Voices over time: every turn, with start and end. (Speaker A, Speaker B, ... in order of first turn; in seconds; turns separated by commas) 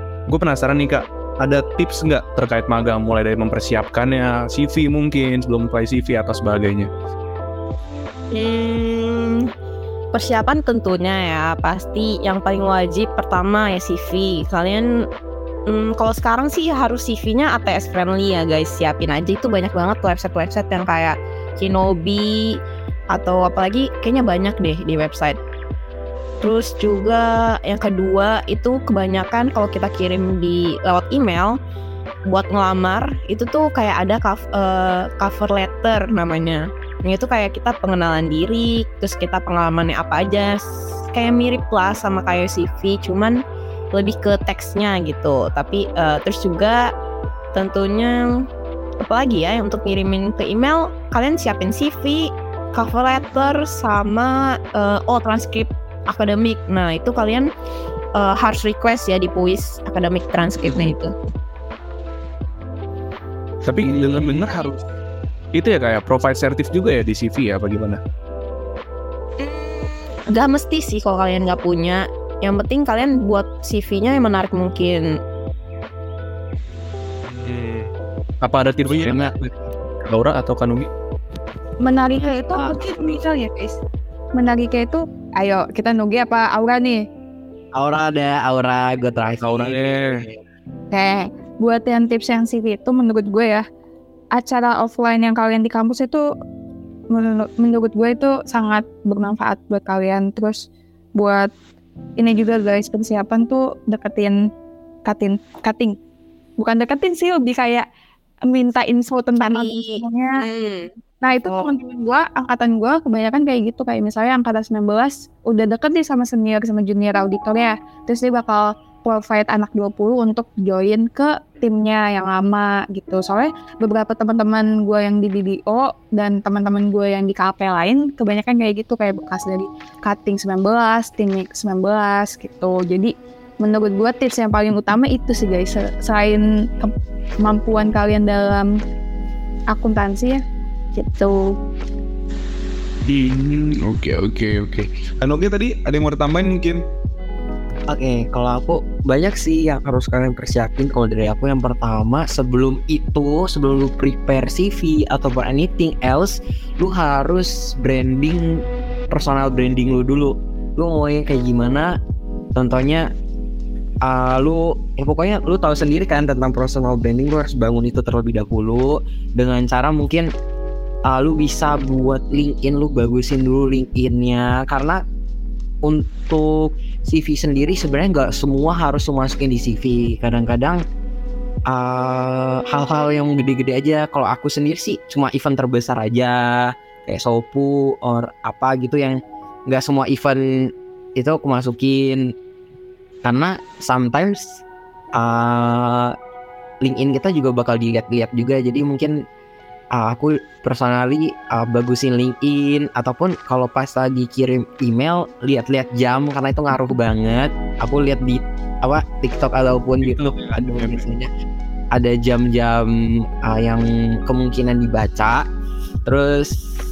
Speaker A: 0.3-6.9, Speaker B: 8.3-9.5, Speaker B: 10.1-14.9, Speaker B: 15.7-22.6, Speaker B: 23.1-25.4, Speaker B: 26.4-31.6, Speaker B: 32.3-40.6, Speaker B: 41.1-43.4, Speaker B: 43.9-46.9, Speaker B: 47.5-48.2, Speaker B: 49.0-57.5, Speaker B: 58.1-61.1, Speaker A: 63.7-64.8, Speaker A: 65.5-68.0, Speaker B: 69.4-75.1, Speaker A: 77.3-77.9, Speaker A: 78.4-79.5, Speaker C: 79.0-79.3, Speaker A: 80.0-80.9, Speaker D: 81.8-83.8, Speaker D: 84.3-87.0, Speaker C: 87.8-90.4, Speaker A: 89.4-90.2, Speaker D: 90.9-93.6, Speaker D: 94.3-96.2, Speaker D: 97.1-100.6, Speaker D: 101.2-101.5, Speaker D: 102.2-104.4, Speaker D: 105.0-106.0, Speaker D: 106.6-107.8, Speaker D: 108.5-110.4, Speaker B: 109.4-110.9, Speaker D: 111.2-138.7, Speaker B: 111.4-111.7, Speaker D: 139.7-140.4, Speaker D: 140.9-141.4, Speaker E: 143.1-146.8, Speaker C: 147.9-161.9, Speaker C: 162.6-163.1, Speaker C: 164.0-170.3, Speaker C: 171.1-175.0, Speaker C: 175.8-180.8, Speaker C: 181.7-190.4, Speaker C: 191.2-192.2, Speaker C: 193.2-194.6, Speaker C: 195.2-196.1, Speaker C: 196.8-199.1, Speaker C: 199.9-211.3, Speaker A: 210.0-211.0, Speaker C: 211.9-215.4, Speaker C: 216.1-216.5